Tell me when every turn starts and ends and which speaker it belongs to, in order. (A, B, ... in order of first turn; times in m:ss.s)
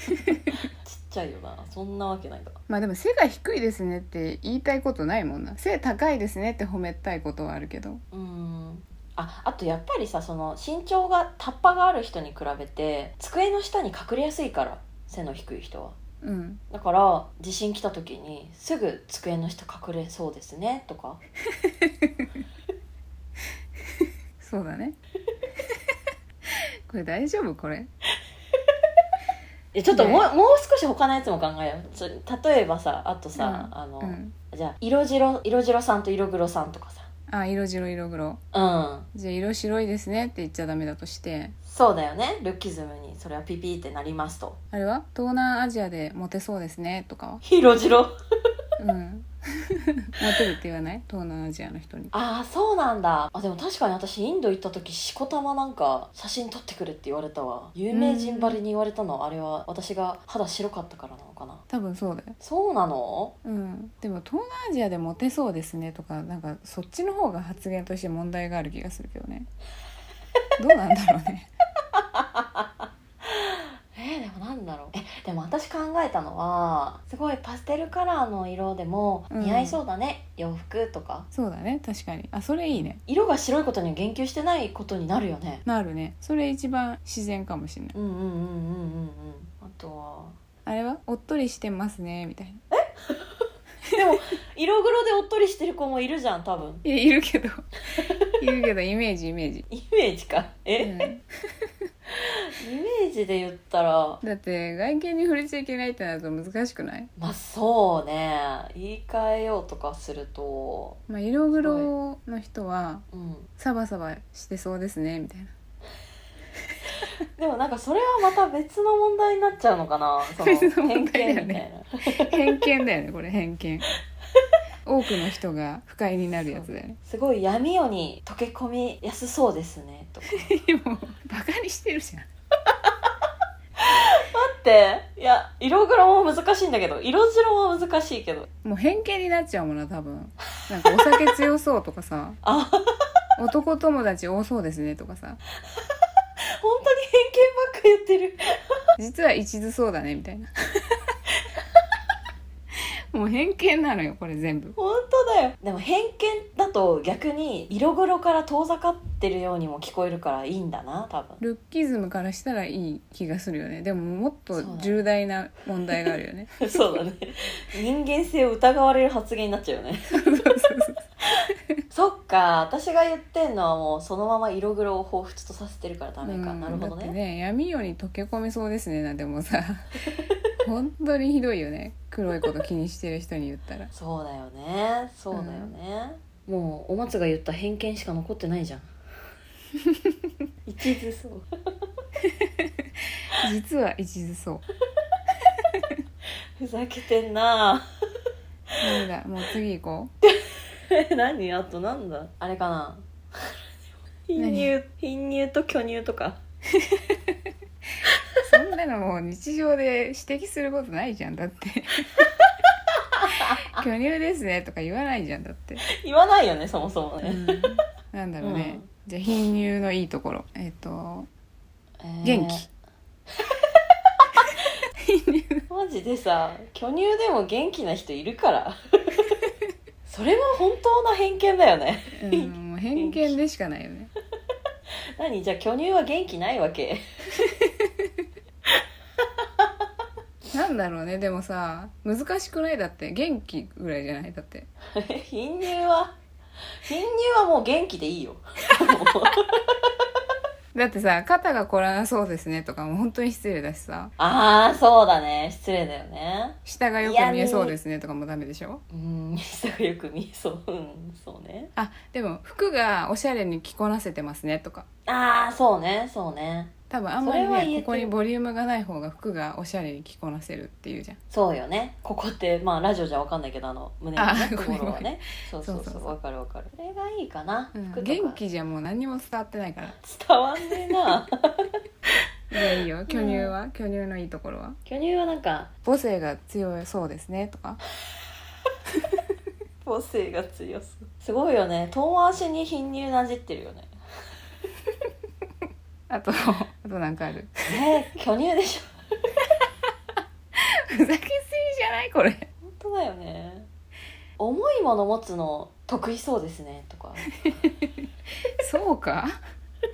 0:00.2-0:00.6 A
0:00.5-0:02.6 B
0:02.7-0:08.0 A
0:08.1-0:16.0 B
0:16.2-0:16.6 A
0:16.7-0:21.2 B
0:21.6-0:22.1 A
0:24.4-0:25.0 A
0:26.9-0:27.9 A
0:29.7-0:37.1 B
0:29.9-0:30.2 A
0:33.4-0:34.3 A
0:37.3-0:38.4 A
0:38.5-0:39.1 B
0:39.1-0:41.6 A
0:41.7-0:44.6 B
0:44.7-0:47.4 A
0:47.4-0:48.1 B
0:48.8-0:49.3 A
0:50.2-0:52.1 A
0:52.1-1:01.6 B
0:57.9-0:58.6 A
1:01.7-1:02.4 A
1:02.4-1:03.4 B
1:03.4-1:09.5 A
1:10.6-1:11.5 A
1:11.9-1:12.6 B
1:13.2-1:21.3 B
1:19.3-1:19.8 A
1:21.3-1:23.0 A
1:22.7-1:25.6 B
1:25.7-1:28.0 A
1:27.9-1:30.4 B
1:30.7-1:32.6 A
1:32.7-1:33.4 B
1:34.0-1:36.8 B
1:36.8-1:37.7 A
1:38.4-1:39.7 A
1:39.7-1:41.0 B
1:40.8-1:41.2 A
1:42.1-1:44.2 B
1:44.2-1:47.1 A
1:47.2-1:51.0 B
1:51.1-1:53.0 A
1:51.6-1:51.9 B
1:53.1-1:53.5 B
1:53.6-1:55.5 A
1:57.4-2:02.6 B
2:00.4-2:01.6 A
2:02.2-2:03.9 A
2:04.9-2:07.0 A
2:06.4-2:10.5 B
2:10.3-2:12.3 A
2:13.8-2:18.5 B
2:18.6-2:22.4 A
2:22.4-2:22.8 B
2:23.4-2:25.4 A
2:26.6-2:28.4 B
2:29.0-2:30.5 A
2:33.1-2:34.8 A
2:34.8-2:41.4 B
2:41.4-2:47.0 A
2:44.5-2:45.0 B
2:46.6-2:50.2 B
2:50.1-2:51.0 A
2:51.9-2:57.2 B
2:56.2-2:59.9 A
3:00.6-3:03.9 A
3:03.9-3:08.9 B
3:05.3-3:05.7 A
3:10.7-3:11.5 B
3:12.2-3:12.7 A
3:13.4-3:14.6 A
3:16.6-3:17.8 B
3:18.8-3:20.1 A
3:20.2-3:23.5 B
3:24.3-3:26.4 B
3:24.4-3:24.7 A
3:26.8-3:27.3 A
3:28.4-3:32.3 A
3:33.2-3:33.6 B
3:33.7-3:35.8 A
3:36.0-3:37.7 B
3:37.2-3:41.3 A
3:38.4-3:38.9 B
3:42.0-3:42.7 B
3:42.2-3:42.7 A
3:45.0-3:45.7 A
3:45.7-3:49.4 B
3:50.1-3:53.4 B
3:52.1-3:54.1 A
3:55.2-3:57.0 B
3:57.5-3:58.1 A
3:59.4-3:59.7 B
4:00.5-4:04.7 A
4:05.0-4:06.2 B
4:06.8-4:09.7 B
4:10.7-4:14.1 A
4:14.2-4:17.8 B
4:16.6-4:18.8 A
4:18.9-4:21.7 B
4:21.8-4:24.9 A
4:25.1-4:28.1 B
4:26.9-4:31.2 A
4:31.3-4:38.4 B
4:34.2-4:36.1 A
4:37.7-4:40.0 A
4:40.0-4:41.7 B
4:42.5-4:44.8 A
4:42.7-4:43.5 B
4:44.9-4:45.7 B
4:45.8-4:47.8 A
4:49.8-4:53.9 B
4:56.1-4:57.5 A
4:57.7-4:58.9 B
5:00.6-5:02.5 A
5:02.6-5:03.7 B
5:04.4-5:07.3 B
5:08.6-5:09.3 A